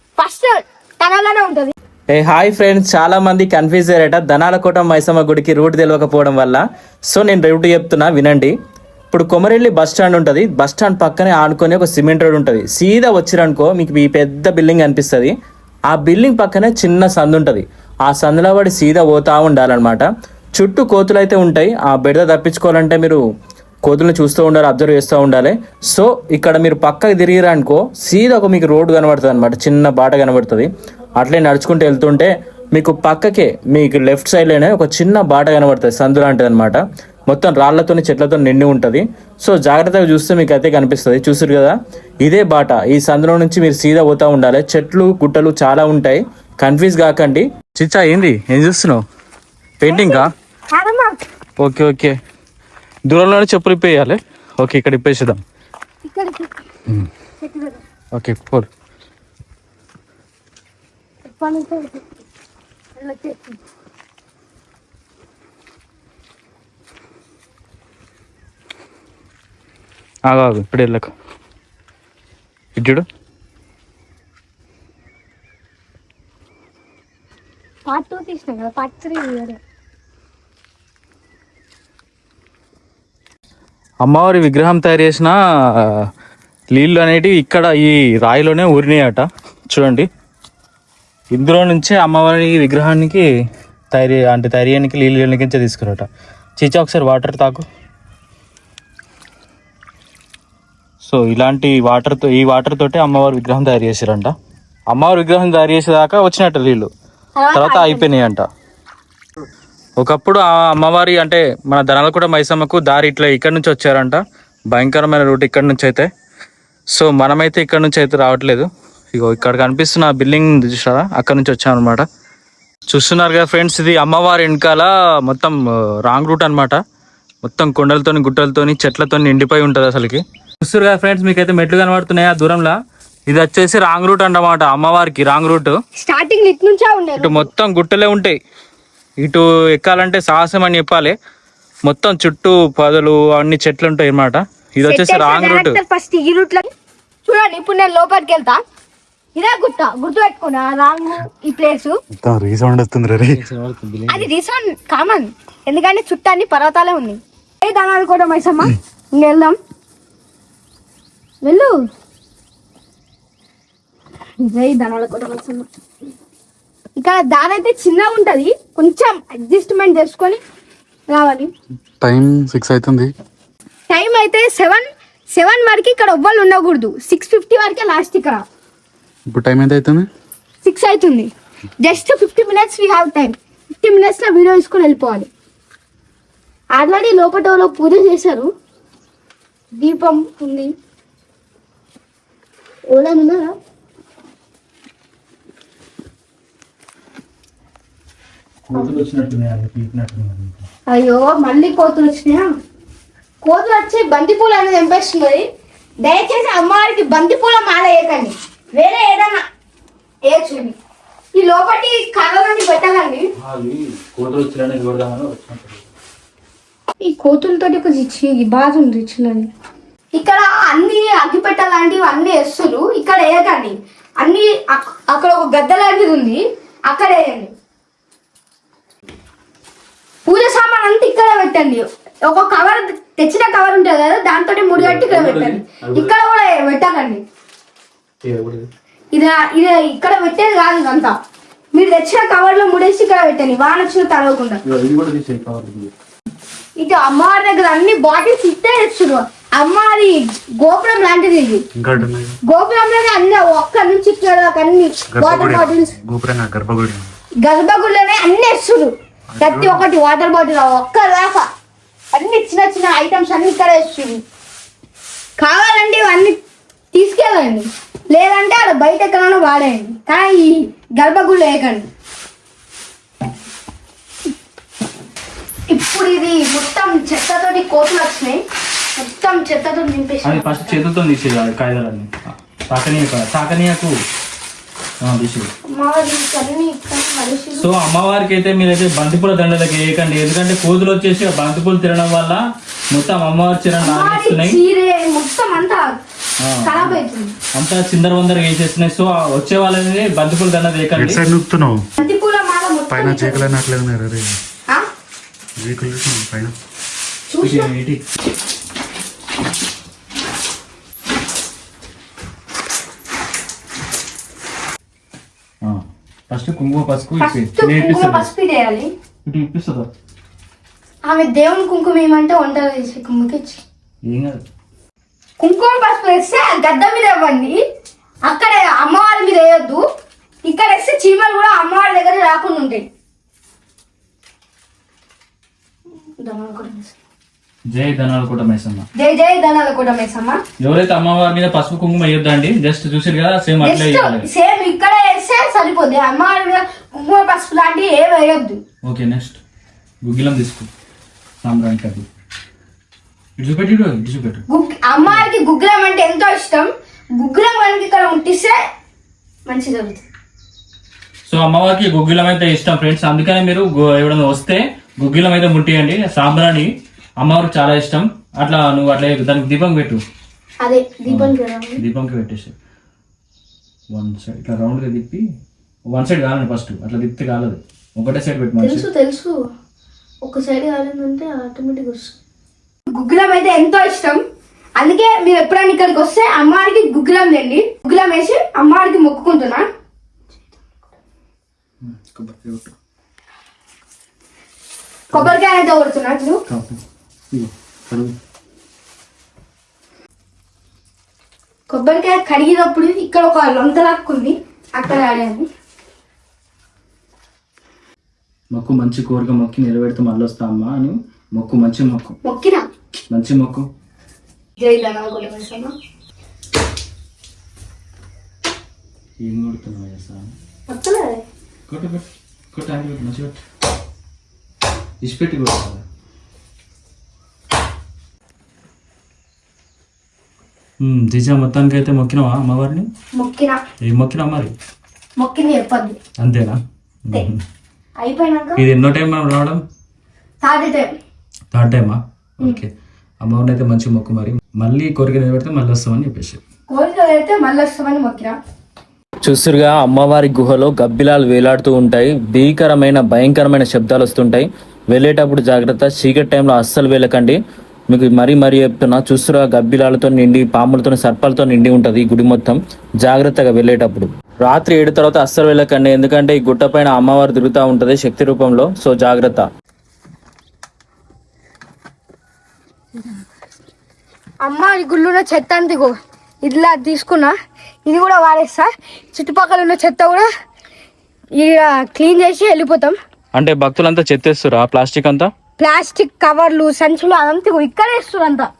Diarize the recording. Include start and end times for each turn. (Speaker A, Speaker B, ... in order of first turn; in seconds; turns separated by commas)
Speaker A: 0.2-1.7, Speaker B: 2.1-8.5, Speaker B: 9.1-15.3, Speaker B: 15.9-23.2, Speaker B: 23.9-30.7, Speaker B: 31.2-49.0, Speaker B: 49.8-50.3, Speaker A: 49.9-51.2, Speaker B: 51.6-52.2, Speaker B: 53.1-55.4, Speaker A: 56.0-56.6, Speaker A: 57.4-57.8, Speaker B: 58.1-58.7, Speaker A: 61.3-62.1, Speaker A: 63.0-63.6, Speaker B: 70.3-71.1, Speaker B: 72.8-73.0, Speaker A: 77.9-79.6, Speaker B: 84.0-85.9, Speaker B: 86.7-90.1, Speaker B: 91.3-93.2, Speaker B: 93.9-96.1, Speaker B: 96.6-97.7, Speaker B: 101.0-104.3, Speaker B: 104.9-106.9, Speaker A: 107.4-108.1, Speaker B: 107.5-108.5, Speaker B: 110.0-114.2, Speaker B: 114.7-116.1, Speaker B: 116.9-122.0, Speaker B: 122.9-126.8, Speaker B: 127.4-132.8, Speaker B: 133.3-135.7, Speaker A: 135.9-137.5, Speaker B: 137.2-138.4, Speaker B: 139.2-141.1, Speaker B: 141.9-145.8, Speaker A: 144.8-146.7, Speaker A: 147.3-148.6, Speaker A: 149.3-151.9, Speaker C: 152.2-153.4, Speaker B: 153.3-154.3, Speaker A: 154.1-159.6, Speaker A: 161.4-161.7, Speaker A: 164.4-165.7, Speaker A: 167.0-170.4, Speaker A: 171.1-171.5, Speaker C: 172.0-173.1, Speaker A: 173.9-178.4, Speaker C: 179.3-180.1, Speaker A: 180.6-185.3, Speaker A: 186.8-188.5, Speaker A: 189.8-190.7, Speaker A: 192.9-193.6, Speaker B: 198.7-200.7, Speaker A: 200.9-202.5, Speaker A: 203.4-205.5, Speaker A: 206.0-209.4, Speaker A: 210.3-210.8, Speaker A: 211.3-213.3, Speaker B: 213.4-215.8, Speaker A: 217.0-219.5, Speaker A: 220.2-227.5, Speaker A: 230.3-237.2, Speaker B: 234.8-236.1, Speaker B: 238.2-238.7, Speaker A: 239.1-241.2, Speaker A: 241.8-244.6, Speaker B: 244.7-245.9, Speaker A: 246.8-251.6, Speaker C: 251.8-252.4, Speaker A: 252.5-255.9, Speaker C: 255.1-257.1, Speaker A: 257.4-261.5, Speaker C: 259.3-259.8, Speaker A: 262.1-264.2, Speaker A: 265.4-266.4, Speaker A: 266.9-271.9, Speaker A: 275.7-278.4, Speaker A: 279.0-280.8, Speaker B: 280.2-283.9, Speaker B: 285.0-285.5, Speaker A: 285.7-287.7, Speaker B: 287.6-294.6, Speaker A: 293.8-296.0, Speaker B: 296.4-297.0, Speaker A: 296.6-297.4, Speaker B: 297.6-301.2, Speaker C: 300.9-301.8, Speaker A: 302.0-303.6, Speaker C: 302.9-304.4, Speaker C: 305.6-306.6, Speaker A: 307.3-307.7, Speaker B: 307.4-308.0, Speaker B: 315.6-318.3, Speaker A: 317.2-318.9, Speaker B: 319.2-319.9, Speaker A: 321.1-323.6, Speaker B: 324.1-324.4, Speaker A: 325.4-327.6, Speaker A: 328.3-329.8, Speaker A: 330.4-332.9, Speaker A: 336.2-336.9, Speaker B: 337.7-338.9, Speaker A: 339.0-340.4, Speaker B: 340.6-344.3, Speaker A: 343.6-348.6, Speaker B: 348.8-349.4, Speaker B: 350.0-350.7, Speaker B: 351.4-352.1, Speaker B: 353.4-354.4, Speaker A: 354.5-358.6, Speaker A: 359.5-360.1, Speaker B: 361.3-370.0, Speaker A: 370.6-371.8, Speaker B: 371.1-372.5, Speaker B: 373.9-375.2, Speaker B: 375.9-378.9, Speaker A: 378.6-379.4, Speaker A: 380.2-382.2, Speaker A: 382.9-384.2, Speaker A: 384.8-389.7, Speaker B: 391.8-392.7, Speaker A: 395.1-396.4, Speaker B: 396.5-396.8, Speaker B: 397.3-398.1, Speaker A: 401.7-405.5, Speaker B: 408.5-412.2, Speaker A: 412.2-412.6, Speaker B: 413.1-413.6, Speaker A: 414.6-415.7, Speaker B: 419.2-420.3, Speaker A: 420.7-421.2, Speaker B: 421.7-423.4, Speaker B: 425.0-425.8, Speaker B: 430.8-432.9, Speaker A: 433.2-433.6, Speaker B: 433.8-434.5, Speaker A: 435.2-436.0, Speaker B: 436.2-437.4, Speaker A: 438.0-438.6, Speaker B: 438.6-439.6, Speaker A: 440.4-440.9, Speaker B: 441.5-442.7, Speaker B: 443.2-446.4, Speaker A: 446.7-448.4, Speaker B: 449.2-457.4, Speaker B: 457.9-469.5, Speaker A: 474.4-477.3, Speaker A: 477.9-480.3, Speaker A: 481.4-483.0, Speaker B: 483.4-485.3, Speaker A: 485.6-488.5